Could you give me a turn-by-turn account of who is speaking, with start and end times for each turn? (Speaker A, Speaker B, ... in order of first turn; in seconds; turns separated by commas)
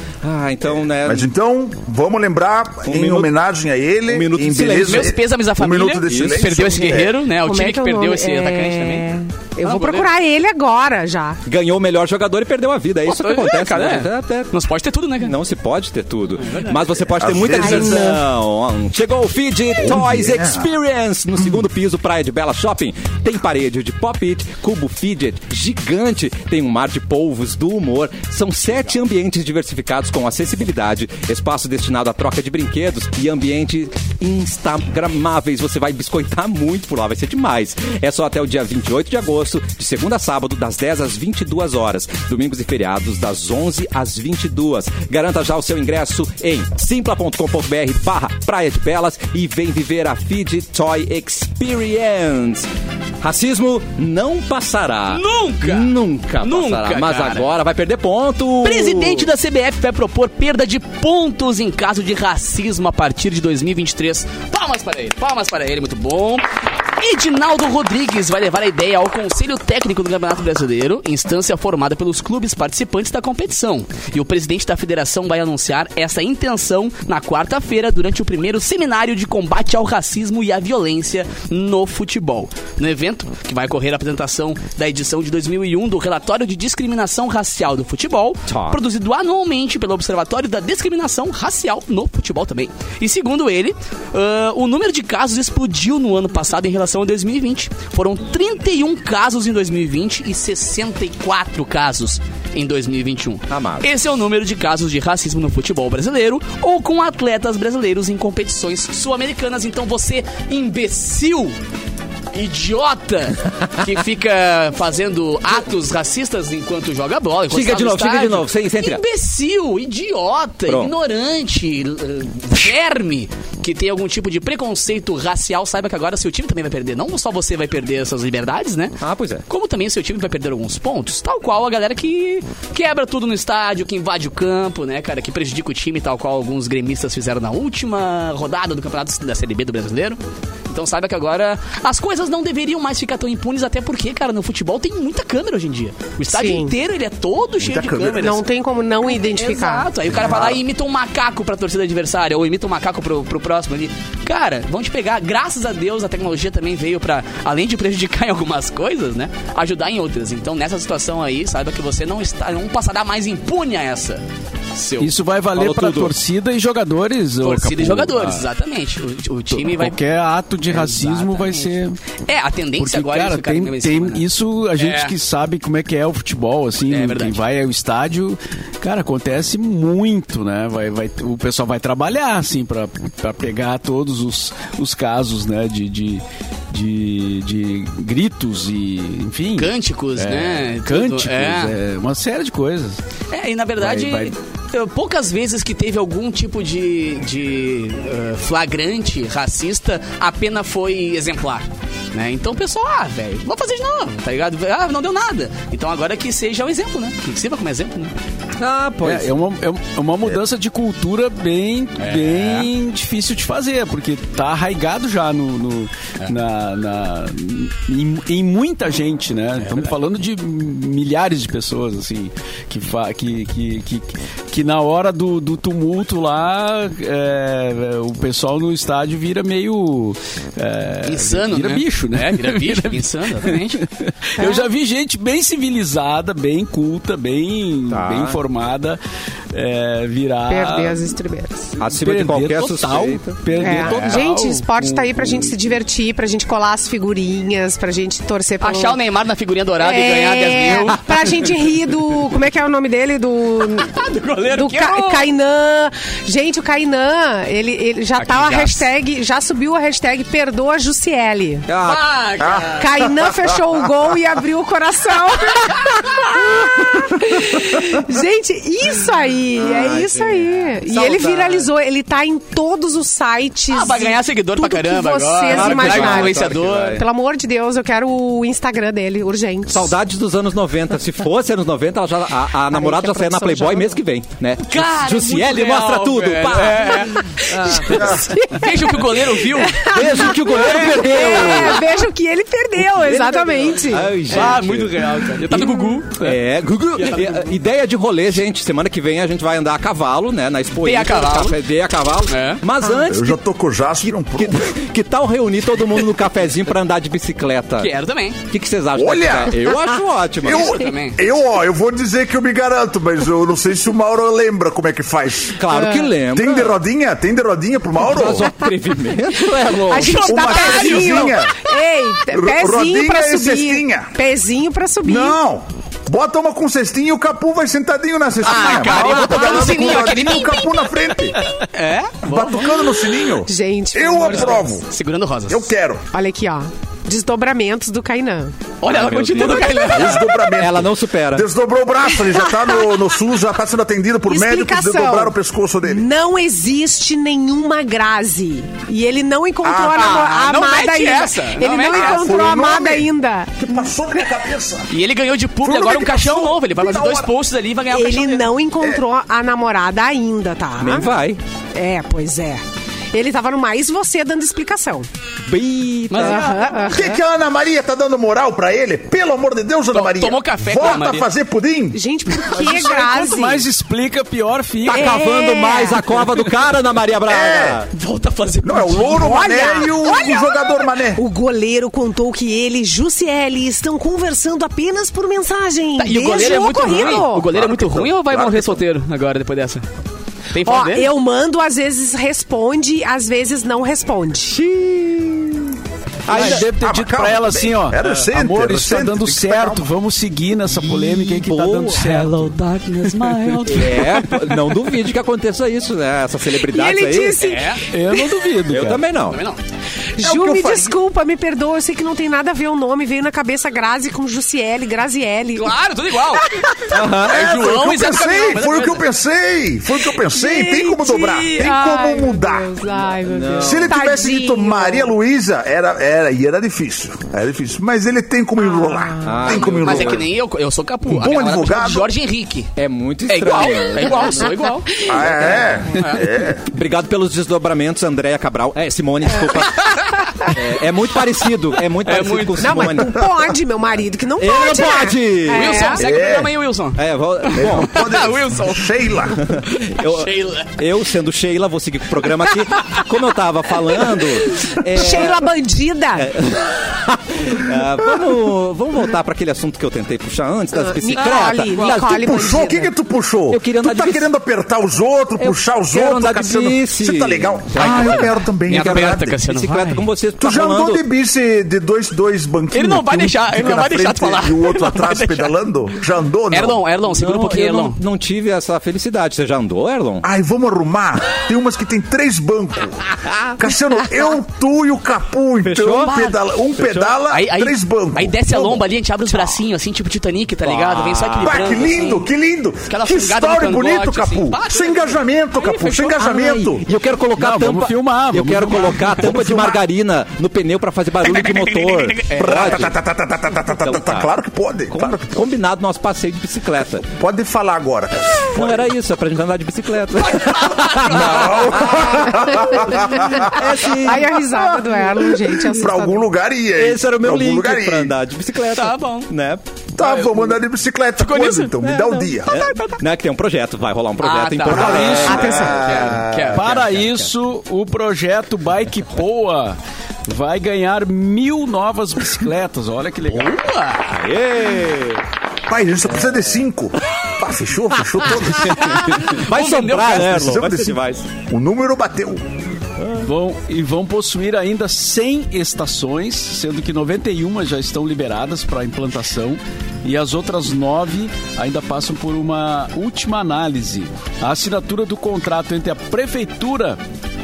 Speaker A: 0.2-1.3, Speaker B: 1.0-7.2, Speaker A: 2.8-3.3, Speaker A: 4.1-5.1, Speaker C: 4.7-9.1, Speaker A: 6.0-6.5, Speaker D: 7.3-11.4, Speaker C: 9.6-10.1, Speaker A: 11.4-14.5, Speaker C: 13.1-15.3, Speaker A: 15.2-52.7, Speaker C: 16.4-17.1, Speaker B: 17.2-18.1, Speaker D: 17.6-18.1, Speaker B: 19.8-20.7, Speaker A: 53.2-59.3, Speaker C: 55.1-57.5, Speaker C: 58.6-66.5, Speaker C: 67.0-111.5, Speaker A: 88.5-88.8, Speaker A: 103.5-103.9, Speaker C: 112.3-140.2, Speaker A: 117.5-119.0, Speaker A: 120.7-120.9, Speaker A: 129.0-129.4, Speaker C: 140.7-148.4, Speaker D: 146.3-146.7, Speaker B: 147.6-148.3, Speaker D: 148.1-149.9, Speaker C: 149.0-165.1, Speaker E: 165.0-168.4, Speaker A: 165.5-166.1, Speaker C: 167.4-170.0, Speaker E: 169.5-172.0, Speaker C: 170.7-171.7, Speaker C: 172.2-174.2, Speaker E: 172.8-193.0, Speaker C: 174.8-175.1, Speaker C: 176.9-177.4, Speaker C: 189.6-191.7, Speaker C: 193.3-208.1, Speaker E: 193.8-194.3, Speaker A: 208.6-209.3, Speaker E: 209.0-239.0, Speaker C: 212.0-212.7, Speaker C: 219.6-219.9, Speaker C: 231.0-233.8, Speaker D: 234.4-234.7, Speaker A: 237.9-238.4, Speaker E: 239.5-241.1, Speaker D: 240.5-241.7, Speaker A: 241.8-244.2, Speaker E: 241.8-245.5, Speaker D: 243.6-249.0, Speaker C: 248.6-251.5, Speaker D: 249.8-261.6, Speaker C: 253.7-255.3, Speaker C: 258.2-258.9, Speaker A: 261.7-262.0, Speaker C: 261.8-263.1, Speaker B: 262.4-262.7, Speaker D: 262.8-279.9, Speaker A: 269.6-271.7, Speaker C: 273.7-277.0, Speaker A: 275.5-277.0, Speaker A: 279.7-288.3, Speaker D: 282.7-283.9, Speaker C: 284.6-291.8, Speaker D: 287.5-294.2, Speaker A: 289.8-292.0, Speaker C: 293.0-296.3, Speaker A: 293.9-303.4, Speaker E: 294.3-295.9, Speaker C: 300.8-301.6, Speaker C: 302.3-302.6, Speaker B: 303.0-304.7, Speaker A: 304.0-307.9, Speaker C: 307.8-308.4, Speaker A: 308.5-310.8, Speaker B: 308.9-309.6, Speaker B: 310.4-315.6, Speaker C: 310.5-311.2, Speaker A: 315.6-316.8, Speaker D: 315.7-316.1, Speaker B: 316.2-318.5, Speaker A: 318.0-320.3, Speaker D: 319.6-325.4, Speaker C: 319.9-321.7, Speaker B: 320.2-321.5, Speaker B: 322.3-324.1, Speaker B: 325.0-331.4, Speaker C: 328.4-333.1, Speaker B: 332.2-334.9, Speaker D: 333.4-334.8, Speaker C: 334.9-335.7, Speaker B: 335.5-336.0, Speaker D: 336.1-338.5, Speaker C: 338.8-340.3, Speaker A: 338.9-339.8, Speaker D: 339.4-340.2, Speaker B: 339.6-346.1, Speaker A: 340.6-341.5, Speaker D: 342.3-343.0, Speaker D: 344.3-353.8, Speaker B: 349.6-350.3, Speaker C: 349.9-352.5, Speaker B: 351.9-354.9, Speaker C: 354.9-358.5, Speaker B: 355.6-357.3, Speaker D: 357.9-361.1, Speaker A: 360.8-361.4, Speaker D: 361.7-362.6, Speaker D: 363.1-365.1, Speaker A: 365.5-366.5, Speaker C: 366.1-366.6, Speaker D: 366.1-367.2, Speaker B: 366.9-372.0, Speaker C: 369.9-371.3, Speaker D: 371.9-373.6, Speaker E: 372.4-375.2, Speaker A: 374.9-377.9, Speaker D: 374.9-376.1, Speaker B: 377.3-377.8, Speaker C: 377.9-379.4, Speaker B: 378.6-381.2, Speaker D: 379.1-387.5, Speaker C: 386.0-389.8, Speaker B: 386.5-388.8, Speaker C: 390.5-391.1, Speaker D: 390.6-394.6, Speaker A: 394.5-396.7, Speaker E: 396.3-404.2, Speaker B: 396.3-399.9, Speaker A: 400.7-402.5, Speaker C: 403.1-403.8, Speaker A: 403.6-407.6, Speaker D: 406.6-408.4, Speaker C: 407.4-407.8, Speaker E: 407.9-409.0, Speaker A: 408.7-409.4, Speaker C: 409.3-409.6, Speaker D: 410.2-415.7, Speaker B: 410.2-410.9, Speaker C: 415.6-416.5, Speaker D: 416.3-417.0, Speaker A: 416.9-417.4, Speaker C: 417.1-419.0, Speaker B: 417.3-422.8, Speaker D: 420.1-425.1, Speaker A: 423.2-423.9, Speaker B: 423.5-430.3, Speaker D: 428.6-429.4, Speaker A: 429.2-430.3, Speaker C: 429.5-432.7, Speaker B: 431.1-432.1, Speaker A: 432.8-434.5, Speaker C: 433.3-436.2, Speaker D: 433.7-435.2, Speaker B: 435.1-436.6, Speaker A: 436.7-443.3, Speaker C: 442.0-443.0, Speaker D: 442.6-446.0, Speaker A: 444.4-446.0, Speaker C: 445.5-450.7, Speaker B: 446.0-446.5, Speaker A: 446.9-448.0, Speaker B: 447.5-449.4, Speaker A: 449.4-455.5, Speaker D: 454.9-456.4, Speaker A: 456.1-462.2, Speaker D: 460.7-462.9, Speaker C: 461.1-462.0, Speaker B: 462.0-469.4, Speaker A: 463.5-464.3, Speaker A: 465.4-471.0, Speaker C: 467.7-470.0, Speaker B: 470.4-476.8, Speaker C: 472.7-475.5, Speaker C: 476.5-478.0, Speaker A: 477.1-480.3, Speaker B: 480.2-488.8, Speaker A: 483.3-483.6, Speaker A: 485.6-487.2, Speaker C: 486.1-486.4, Speaker C: 487.3-492.3, Speaker A: 490.6-492.1, Speaker B: 491.4-496.8, Speaker C: 492.9-496.6, Speaker A: 496.3-502.9, Speaker E: 497.4-499.2, Speaker B: 499.2-499.8, Speaker C: 501.2-502.9, Speaker B: 502.3-505.4, Speaker A: 503.8-504.3, Speaker A: 504.9-507.1, Speaker B: 507.2-508.9, Speaker A: 508.3-514.6, Speaker C: 510.1-512.1, Speaker B: 511.1-513.6, Speaker D: 512.2-512.7, Speaker D: 513.5-516.2, Speaker B: 514.6-518.1, Speaker A: 516.8-519.6, Speaker C: 518.7-519.3, Speaker B: 519.9-522.5, Speaker C: 520.0-520.5, Speaker C: 521.2-521.9, Speaker A: 521.8-526.9, Speaker C: 522.5-522.8, Speaker C: 524.2-527.3, Speaker E: 524.7-525.5, Speaker B: 524.7-526.4, Speaker D: 525.2-525.8, Speaker E: 526.5-533.5, Speaker C: 533.3-534.2, Speaker A: 534.1-535.2, Speaker B: 535.7-539.0, Speaker A: 538.3-541.3, Speaker C: 538.7-540.7, Speaker B: 540.3-540.9, Speaker B: 541.5-542.5, Speaker A: 543.0-543.3, Speaker E: 543.2-557.0